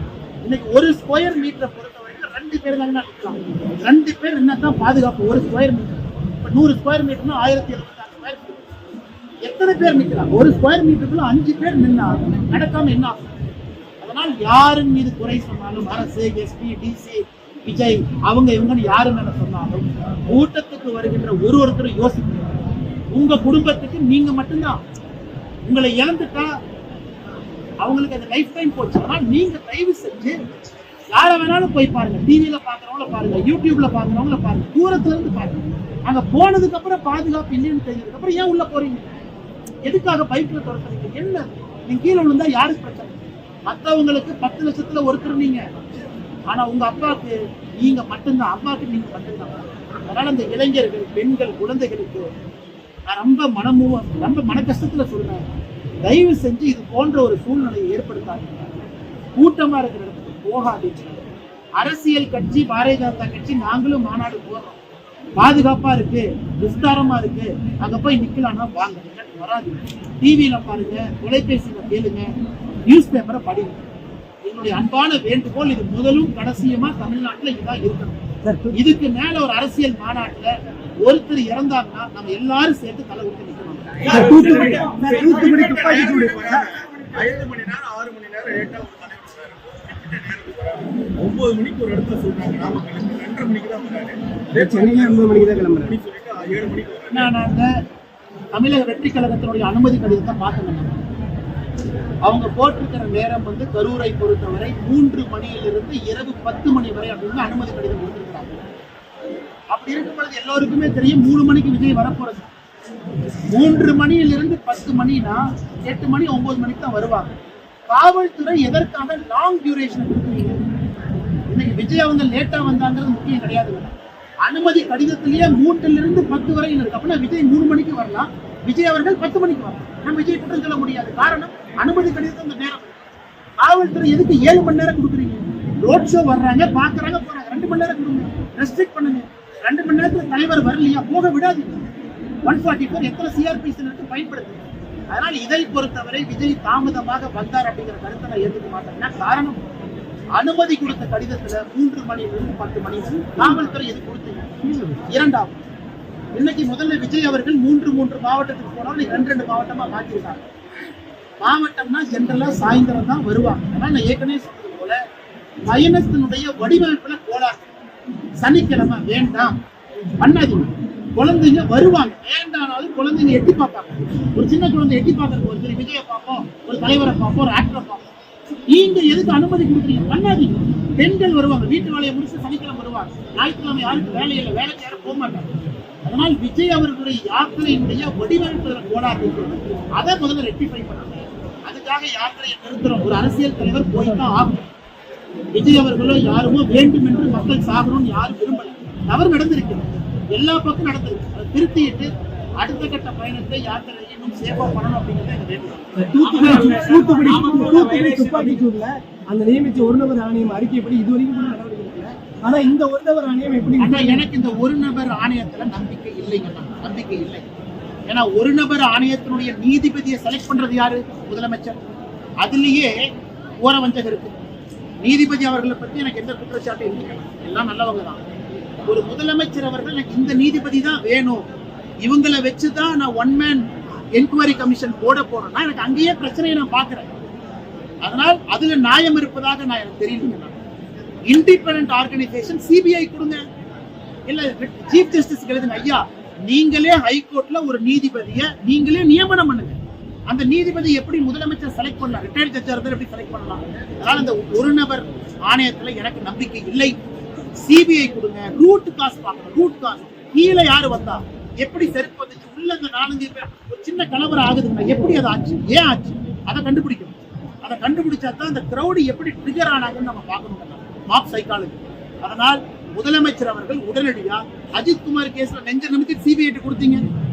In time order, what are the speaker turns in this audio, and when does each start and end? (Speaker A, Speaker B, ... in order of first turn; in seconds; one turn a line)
Speaker A: 0.5-8.6
Speaker A: 9.4-13.2
Speaker A: 14.0-22.5
Speaker A: 23.1-24.8
Speaker A: 25.7-26.5
Speaker A: 27.8-30.4
Speaker A: 31.1-39.0
Speaker A: 39.9-43.1
Speaker A: 43.7-45.6
Speaker A: 46.5-52.3
Speaker A: 53.1-55.4
Speaker A: 56.1-58.7
Speaker A: 59.4-61.2
Speaker A: 61.8-64.8
Speaker A: 65.4-72.3
Speaker A: 72.9-73.9
Speaker A: 74.5-78.2
Speaker B: 78.4-78.7
Speaker A: 78.7-80.5
Speaker A: 81.0-84.1
Speaker C: 84.0-97.3
Speaker B: 84.0-87.2
Speaker B: 94.6-96.0
Speaker A: 97.1-97.7
Speaker A: 98.5-100.9
Speaker A: 102.2-108.6
Speaker A: 109.7-112.5
Speaker A: 113.5-117.3
Speaker A: 117.9-120.6
Speaker A: 121.5-133.0
Speaker A: 133.6-141.7
Speaker A: 142.4-144.6
Speaker A: 145.1-149.6
Speaker A: 150.4-154.5
Speaker B: 154.7-155.0
Speaker A: 155.1-155.6
Speaker A: 156.3-160.4
Speaker A: 161.4-165.0
Speaker A: 165.7-167.7
Speaker A: 168.4-169.6
Speaker A: 170.2-178.0
Speaker A: 178.7-185.5
Speaker A: 186.1-194.7
Speaker A: 195.5-202.1
Speaker A: 202.6-207.4
Speaker B: 206.0-214.2
Speaker C: 206.2-208.6
Speaker A: 213.8-217.4
Speaker A: 218.1-221.8
Speaker A: 222.4-223.0
Speaker A: 223.6-224.3
Speaker A: 225.0-228.2
Speaker A: 228.9-231.4
Speaker A: 232.1-233.6
Speaker A: 234.2-237.1
Speaker A: 238.0-240.6
Speaker A: 241.3-243.4
Speaker A: 244.3-249.8
Speaker A: 250.3-257.0
Speaker A: 257.6-277.0